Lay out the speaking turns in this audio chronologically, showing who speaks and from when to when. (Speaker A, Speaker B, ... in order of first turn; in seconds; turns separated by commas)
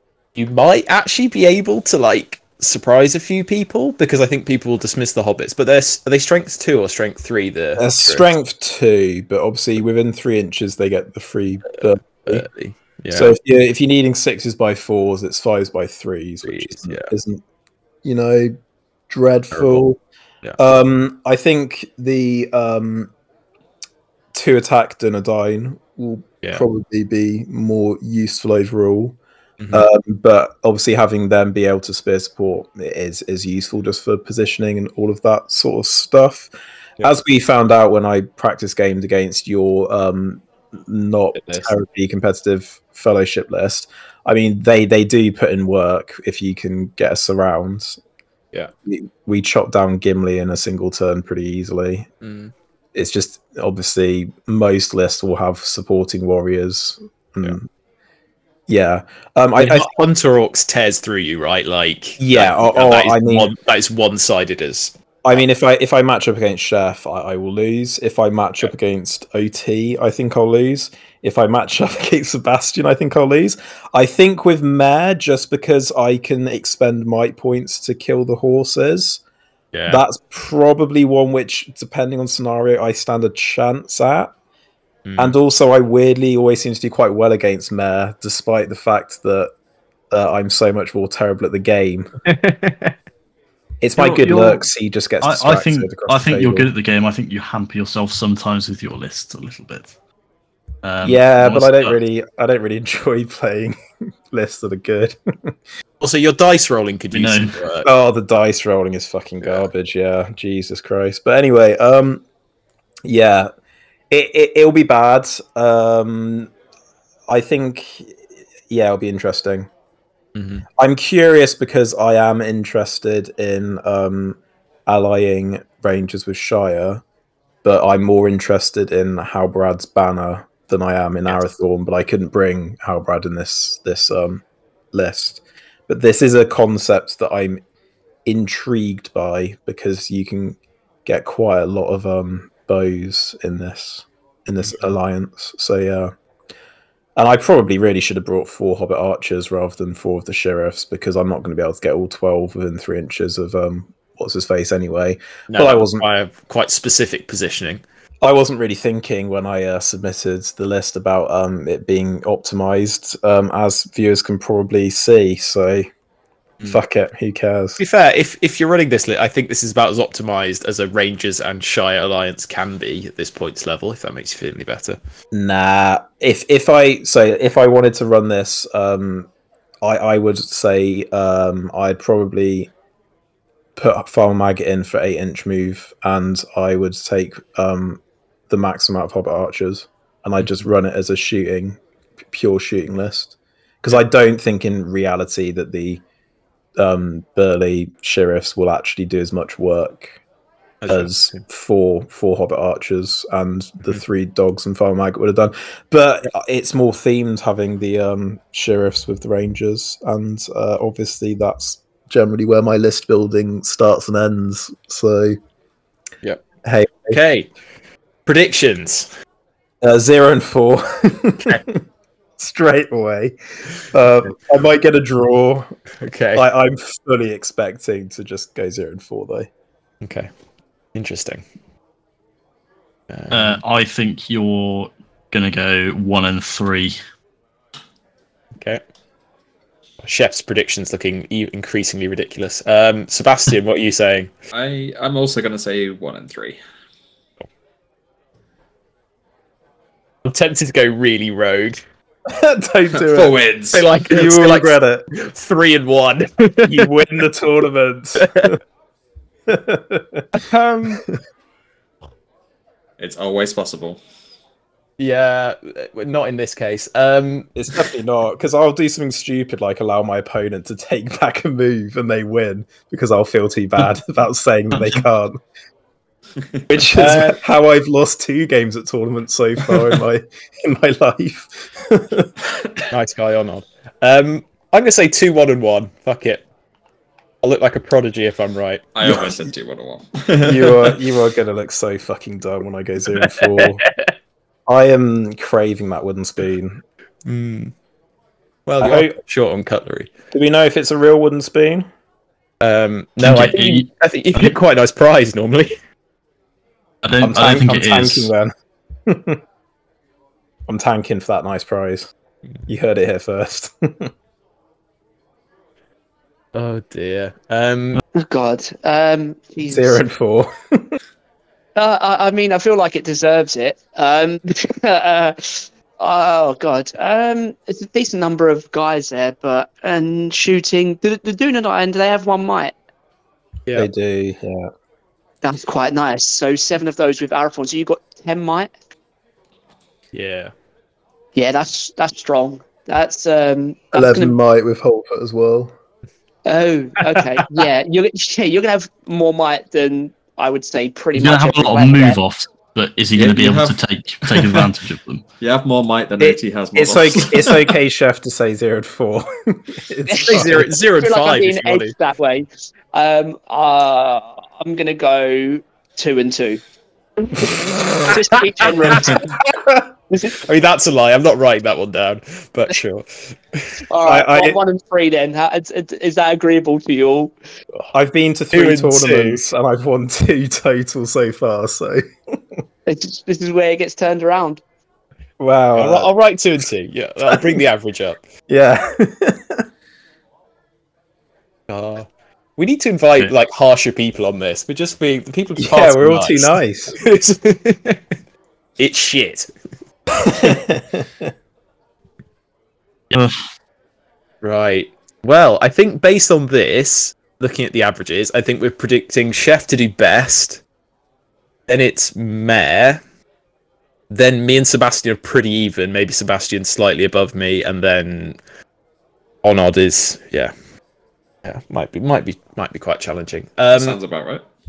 Speaker A: 0.3-8.3, Speaker B: 7.8-12.5, Speaker A: 12.0-13.3, Speaker B: 13.1-17.4, Speaker A: 16.4-17.1, Speaker B: 18.0-18.5, Speaker B: 19.1-20.0, Speaker A: 19.5-19.9, Speaker B: 20.6-23.1, Speaker B: 24.3-29.2, Speaker A: 29.6-29.9, Speaker B: 29.7-48.0, Speaker A: 41.3-41.7, Speaker B: 48.8-52.1, Speaker A: 52.2-52.5, Speaker B: 52.9-57.7, Speaker B: 58.7-59.9, Speaker A: 59.6-64.9, Speaker B: 62.2-63.5, Speaker B: 65.2-79.2, Speaker A: 79.7-80.0, Speaker B: 79.9-84.3, Speaker A: 85.0-85.3, Speaker B: 85.2-89.5, Speaker B: 90.1-92.1, Speaker A: 92.2-92.9, Speaker B: 93.8-96.7, Speaker C: 94.0-94.6, Speaker C: 95.2-99.9, Speaker C: 100.8-101.9, Speaker B: 101.0-103.8, Speaker B: 104.3-105.5, Speaker A: 106.0-107.9, Speaker C: 107.1-107.6, Speaker B: 107.8-112.2, Speaker A: 109.4-109.7, Speaker B: 113.0-113.5, Speaker B: 114.1-116.5, Speaker B: 117.3-119.7, Speaker A: 120.3-120.6, Speaker B: 120.8-127.0, Speaker B: 127.6-137.6, Speaker B: 138.2-146.1, Speaker B: 147.2-156.0, Speaker A: 155.5-157.8, Speaker B: 158.2-165.9, Speaker B: 166.6-167.8, Speaker A: 167.8-175.0, Speaker B: 175.3-179.3, Speaker B: 179.8-182.7, Speaker B: 183.8-196.0, Speaker B: 196.8-200.1, Speaker A: 200.8-201.4, Speaker B: 200.9-215.4, Speaker B: 216.6-217.2, Speaker A: 217.1-217.5, Speaker A: 218.2-219.1, Speaker B: 219.8-221.8, Speaker B: 222.4-223.3, Speaker B: 223.9-225.8, Speaker A: 226.0-226.4, Speaker B: 226.3-229.5, Speaker A: 230.0-230.3, Speaker A: 230.9-231.4, Speaker A: 233.1-233.6, Speaker C: 233.3-237.0, Speaker A: 240.0-244.3, Speaker D: 244.5-246.6, Speaker A: 250.2-251.8, Speaker B: 252.3-253.3, Speaker D: 253.0-253.9, Speaker A: 253.7-256.9, Speaker B: 254.1-255.1, Speaker B: 256.6-258.6, Speaker A: 258.2-258.5, Speaker B: 259.5-260.4, Speaker A: 260.3-261.0, Speaker D: 263.0-264.0, Speaker A: 265.0-267.5, Speaker B: 267.6-275.4, Speaker B: 276.7-282.3, Speaker A: 276.8-277.4, Speaker D: 282.6-282.9, Speaker A: 282.9-286.4, Speaker A: 287.4-288.9, Speaker D: 288.9-290.9, Speaker B: 290.4-293.8, Speaker A: 293.2-293.9, Speaker B: 294.7-296.8, Speaker A: 297.2-297.7, Speaker A: 298.6-300.1, Speaker B: 298.8-299.2, Speaker B: 300.3-301.9, Speaker A: 302.6-305.8, Speaker C: 303.2-304.5, Speaker C: 307.0-308.3, Speaker B: 307.2-308.5, Speaker B: 309.1-309.4, Speaker B: 310.7-312.1, Speaker B: 312.7-314.1, Speaker A: 316.5-318.0, Speaker E: 318.1-320.0, Speaker B: 319.7-320.9, Speaker E: 321.8-332.7, Speaker B: 333.7-334.7, Speaker E: 335.4-338.7, Speaker A: 340.1-340.5, Speaker E: 341.3-344.4, Speaker B: 343.9-345.7, Speaker E: 346.4-352.2, Speaker C: 351.2-355.2, Speaker D: 353.1-354.7, Speaker D: 355.4-357.7, Speaker B: 356.2-360.7, Speaker E: 360.1-366.6, Speaker A: 360.2-361.9, Speaker E: 367.3-369.2, Speaker B: 367.5-368.1, Speaker A: 368.8-369.3, Speaker B: 369.0-369.8, Speaker E: 370.1-370.3, Speaker A: 370.3-373.8, Speaker E: 373.9-377.3, Speaker B: 374.0-374.6, Speaker B: 377.9-382.4, Speaker A: 378.5-379.4, Speaker E: 382.9-384.6, Speaker B: 385.4-386.1, Speaker A: 385.8-388.2, Speaker B: 387.2-387.6, Speaker B: 388.5-389.6, Speaker A: 391.7-398.1, Speaker B: 395.6-397.0, Speaker A: 398.8-399.5, Speaker B: 400.2-401.3, Speaker C: 403.1-403.4, Speaker A: 404.4-410.6, Speaker A: 411.7-413.0, Speaker A: 414.1-418.4, Speaker A: 419.4-420.5, Speaker A: 421.4-424.0, Speaker D: 423.7-424.4